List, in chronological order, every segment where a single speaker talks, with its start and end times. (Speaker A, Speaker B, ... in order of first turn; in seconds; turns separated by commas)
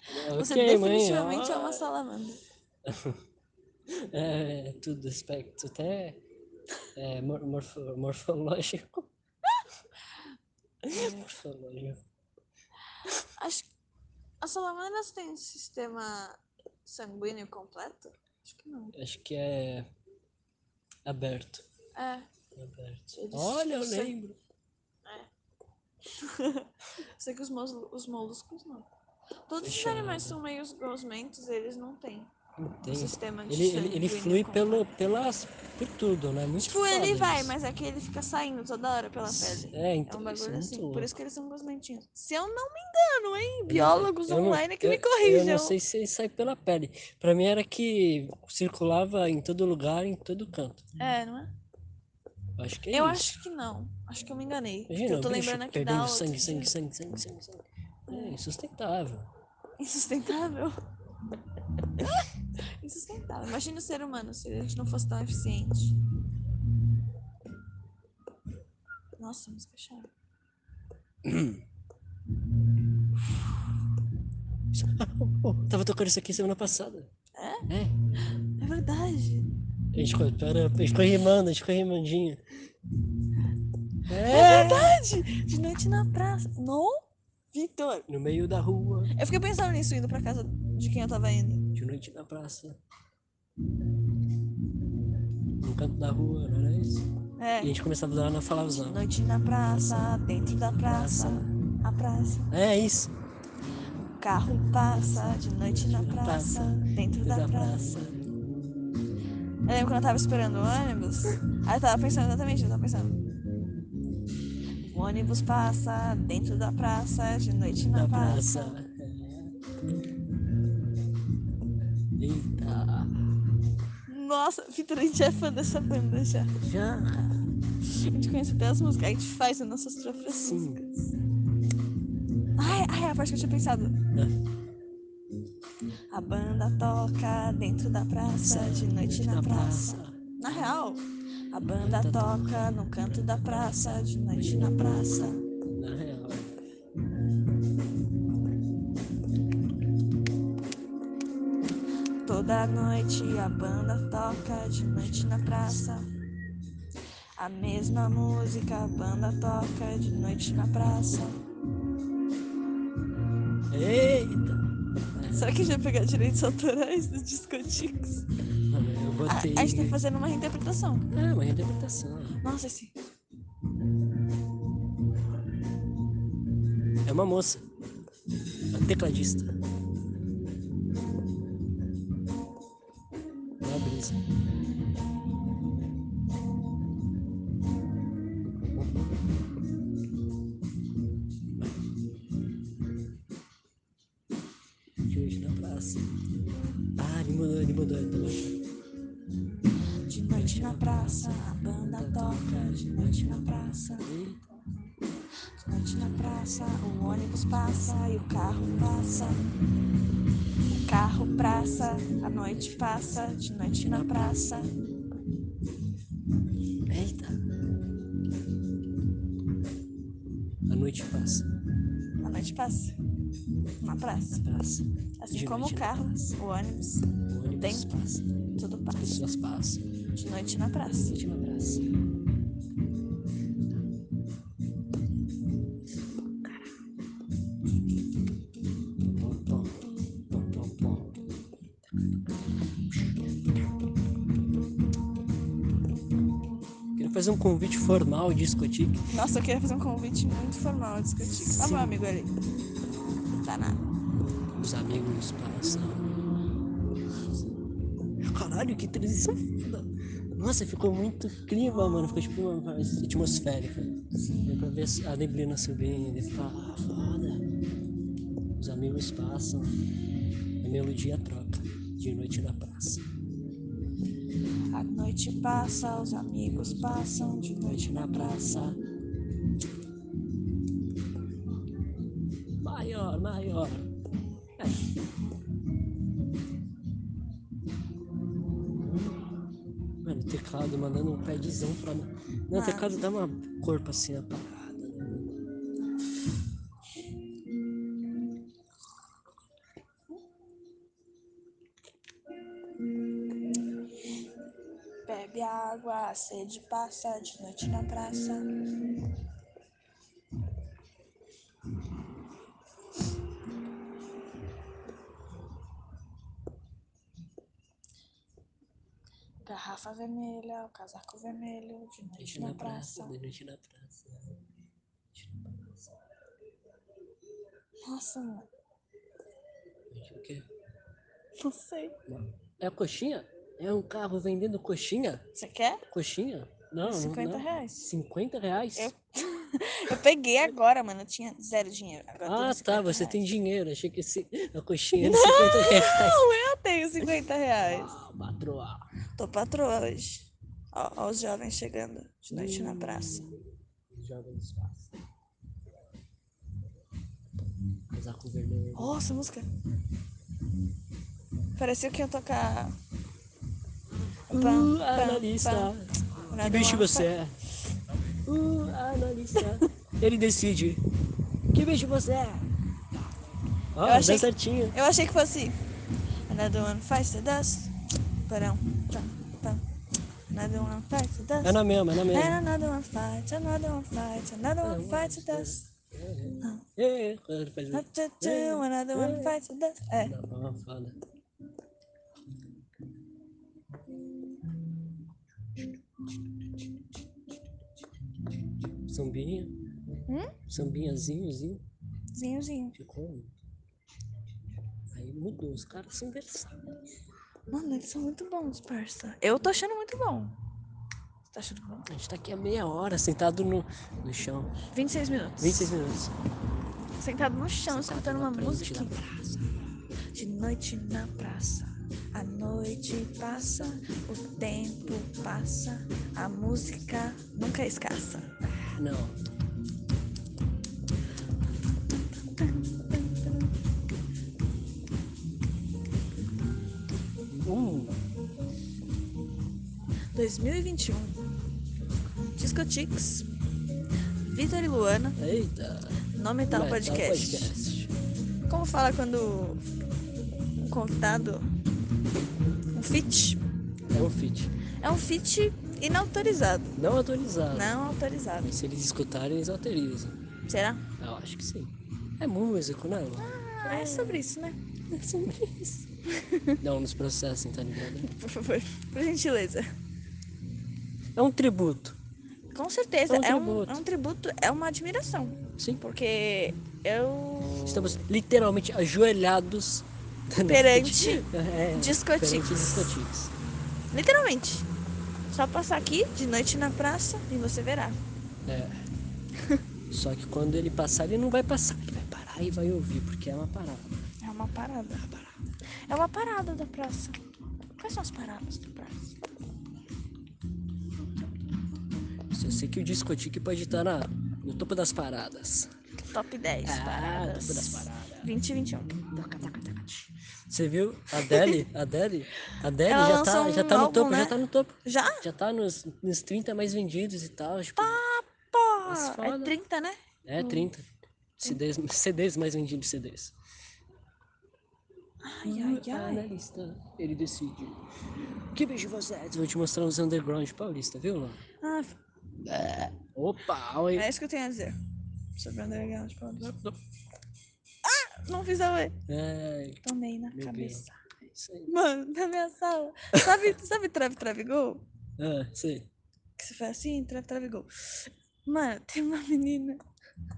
Speaker A: 0.1-1.9, Speaker B: 0.3-2.4, Speaker A: 2.8-3.2, Speaker A: 3.9-6.2, Speaker A: 7.0-9.1, Speaker A: 10.8-12.0, Speaker B: 10.9-11.2, Speaker B: 13.4-13.7, Speaker B: 14.4-18.9, Speaker A: 18.9-19.9, Speaker A: 21.1-21.6, Speaker B: 21.9-22.2, Speaker A: 22.5-24.4, Speaker B: 23.1-24.1, Speaker B: 26.1-28.9, Speaker B: 29.5-32.3, Speaker A: 29.6-30.4, Speaker A: 32.6-37.5, Speaker B: 32.8-34.9, Speaker B: 36.6-45.8, Speaker A: 39.2-41.1, Speaker A: 43.7-50.8, Speaker B: 51.0-51.5, Speaker A: 52.6-53.4, Speaker B: 52.9-56.7, Speaker A: 54.9-59.3, Speaker B: 58.1-58.4, Speaker B: 59.8-60.8, Speaker B: 62.0-62.3, Speaker B: 62.8-66.0, Speaker B: 69.2-70.1, Speaker A: 71.2-71.6, Speaker A: 74.7-77.1, Speaker B: 77.3-77.7, Speaker A: 77.7-77.9, Speaker B: 78.6-79.5, Speaker A: 79.9-82.4, Speaker A: 84.1-85.0, Speaker B: 84.3-88.1, Speaker A: 88.1-89.1, Speaker B: 89.1-91.7, Speaker A: 91.7-92.8, Speaker A: 95.6-97.1, Speaker B: 97.4-97.7, Speaker A: 97.6-99.1, Speaker B: 98.7-102.5, Speaker A: 99.6-101.5, Speaker A: 102.5-103.1, Speaker B: 104.2-108.0, Speaker A: 104.8-108.3, Speaker B: 109.7-113.1, Speaker B: 114.8-118.7, Speaker A: 117.8-119.5, Speaker A: 122.2-123.2, Speaker B: 124.1-126.5, Speaker A: 126.6-127.5, Speaker B: 127.9-131.1, Speaker A: 130.4-130.8, Speaker B: 132.6-134.0, Speaker B: 136.1-145.4, Speaker A: 138.4-140.7, Speaker A: 141.8-146.6, Speaker B: 152.2-156.1, Speaker A: 155.0-155.8, Speaker B: 157.4-161.4, Speaker A: 163.7-165.6, Speaker B: 165.3-168.2, Speaker A: 168.7-170.0, Speaker B: 169.3-171.1, Speaker A: 171.1-172.4, Speaker B: 172.4-172.9, Speaker A: 177.0-177.6, Speaker A: 178.7-179.5, Speaker A: 183.6-184.2, Speaker A: 188.6-189.2, Speaker A: 195.0-196.1, Speaker A: 197.0-198.6, Speaker B: 200.1-204.1, Speaker A: 200.3-204.4, Speaker B: 205.6-209.5, Speaker B: 210.7-214.7, Speaker A: 212.5-214.7, Speaker A: 216.9-217.4, Speaker A: 220.7-221.5, Speaker B: 222.2-222.9, Speaker B: 223.8-224.4, Speaker A: 224.3-226.3, Speaker B: 225.2-227.9, Speaker A: 227.3-228.3, Speaker B: 228.6-229.2, Speaker A: 228.9-229.8, Speaker B: 230.1-231.2, Speaker A: 231.0-231.9, Speaker A: 239.0-241.2, Speaker A: 247.0-249.1, Speaker B: 249.1-252.3, Speaker A: 251.2-252.0, Speaker B: 253.4-253.8, Speaker A: 254.6-256.2, Speaker A: 258.2-267.4, Speaker B: 264.1-264.6, Speaker A: 268.6-269.8, Speaker A: 270.6-273.0, Speaker B: 274.7-278.8, Speaker A: 275.7-278.8, Speaker A: 282.6-283.9, Speaker A: 284.6-284.8, Speaker A: 288.8-289.2, Speaker A: 290.0-295.4, Speaker B: 292.5-293.0, Speaker B: 305.1-308.5, Speaker B: 319.4-323.1, Speaker A: 322.2-324.4, Speaker A: 325.1-325.9, Speaker B: 327.8-328.5, Speaker A: 329.9-330.4, Speaker B: 331.4-331.9, Speaker A: 332.1-335.2, Speaker B: 335.3-335.8, Speaker A: 335.9-338.9, Speaker B: 336.9-337.9, Speaker B: 338.8-343.2, Speaker A: 342.2-346.3, Speaker B: 345.0-347.9, Speaker A: 347.6-348.9, Speaker B: 349.2-353.2, Speaker A: 352.3-354.9, Speaker A: 357.9-359.0, Speaker B: 358.8-359.5, Speaker B: 361.6-362.7, Speaker B: 364.3-365.7, Speaker A: 364.3-367.5, Speaker B: 366.3-367.1, Speaker A: 368.2-370.8, Speaker A: 371.5-372.5, Speaker A: 373.8-374.8, Speaker B: 373.8-375.6, Speaker B: 376.3-377.7, Speaker B: 378.2-379.6, Speaker B: 380.3-385.6, Speaker A: 381.4-382.4, Speaker A: 384.6-389.4, Speaker B: 387.7-390.1, Speaker A: 390.0-391.0, Speaker A: 398.8-399.5, Speaker B: 400.1-400.3, Speaker A: 400.5-401.6, Speaker B: 402.1-402.8, Speaker A: 402.7-403.3, Speaker A: 404.9-406.6, Speaker B: 407.5-410.3, Speaker B: 411.3-411.9, Speaker A: 411.9-414.5, Speaker B: 414.7-415.8, Speaker A: 415.4-416.1, Speaker B: 417.0-419.0, Speaker A: 417.6-419.5, Speaker B: 420.1-428.3, Speaker A: 423.4-423.7, Speaker A: 426.5-426.8, Speaker A: 428.6-429.2, Speaker B: 432.2-433.5, Speaker A: 437.3-437.9, Speaker B: 440.1-441.2, Speaker B: 442.4-443.3, Speaker B: 444.2-445.2, Speaker A: 445.2-447.9, Speaker B: 446.1-447.5, Speaker B: 448.5-449.6, Speaker B: 450.6-451.5, Speaker B: 452.7-453.4, Speaker A: 453.9-454.5, Speaker B: 454.8-456.7, Speaker A: 456.7-457.8, Speaker B: 457.5-458.5, Speaker A: 458.4-460.2, Speaker B: 460.5-460.8, Speaker A: 461.0-464.3, Speaker B: 463.2-464.6, Speaker A: 464.9-465.9, Speaker B: 466.1-466.6, Speaker A: 466.6-468.1, Speaker B: 468.0-469.7, Speaker A: 471.1-472.0, Speaker B: 472.5-477.9, Speaker A: 473.1-473.8, Speaker A: 475.6-475.8, Speaker A: 477.6-483.3, Speaker B: 480.4-482.9, Speaker B: 483.9-484.6, Speaker B: 485.3-488.0, Speaker A: 488.4-488.7, Speaker A: 489.9-494.0, Speaker B: 494.2-495.1, Speaker B: 495.9-497.2, Speaker B: 497.8-499.1, Speaker B: 501.0-501.6, Speaker A: 502.3-505.7, Speaker B: 506.0-509.9, Speaker A: 506.6-508.3, Speaker A: 509.1-518.0, Speaker B: 511.3-511.6, Speaker B: 512.8-515.2, Speaker B: 517.8-520.7, Speaker A: 518.8-519.5, Speaker A: 520.2-520.9, Speaker A: 521.4-523.4, Speaker B: 525.2-526.3, Speaker A: 525.4-527.8, Speaker A: 528.5-531.4, Speaker B: 531.6-532.0, Speaker A: 532.4-534.1, Speaker B: 533.9-534.8, Speaker B: 535.4-536.5, Speaker A: 536.4-536.8, Speaker B: 537.8-539.0, Speaker A: 539.1-541.7, Speaker B: 539.8-541.0, Speaker B: 541.7-544.8, Speaker A: 543.1-543.5, Speaker A: 545.2-545.9, Speaker B: 546.4-547.7, Speaker B: 548.4-549.8